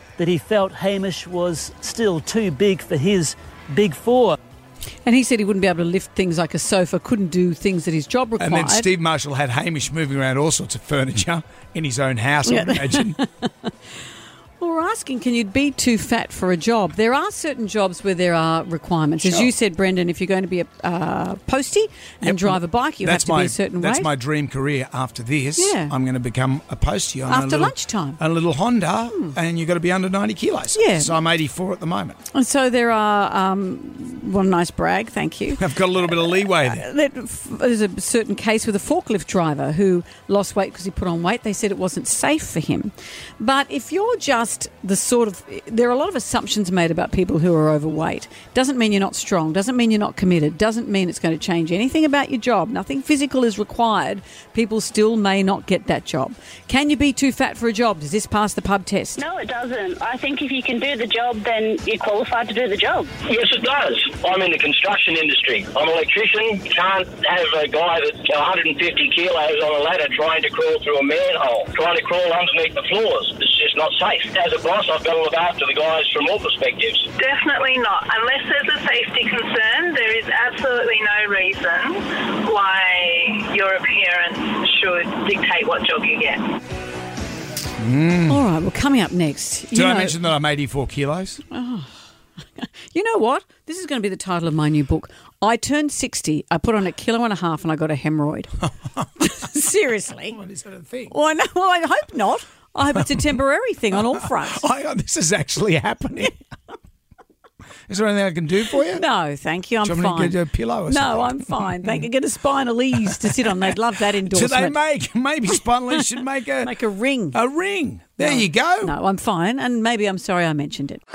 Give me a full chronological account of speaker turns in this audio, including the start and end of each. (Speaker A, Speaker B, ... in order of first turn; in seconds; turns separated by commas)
Speaker A: 0.2-4.4, Speaker B: 5.0-8.9, Speaker C: 8.4-13.2, Speaker B: 12.5-13.7, Speaker B: 14.6-24.1, Speaker C: 19.2-19.5, Speaker C: 22.2-32.2, Speaker B: 25.6-25.9, Speaker B: 27.3-28.2, Speaker B: 30.7-31.1, Speaker B: 32.3-59.2, Speaker C: 35.5-36.9, Speaker D: 59.2-63.1, Speaker E: 63.3-77.0, Speaker F: 77.2-86.4, Speaker C: 87.8-88.4, Speaker B: 88.3-90.2, Speaker C: 89.7-91.4, Speaker B: 91.5-91.9, Speaker B: 92.6-98.6, Speaker B: 99.2-100.4, Speaker C: 100.3-101.1, Speaker B: 101.1-104.6, Speaker C: 103.9-106.3, Speaker C: 107.9-109.0, Speaker B: 108.9-110.3, Speaker C: 109.8-112.0, Speaker B: 110.8-114.8, Speaker C: 113.0-113.3, Speaker C: 114.3-116.7, Speaker B: 116.6-117.4, Speaker C: 117.3-118.9, Speaker B: 118.2-121.0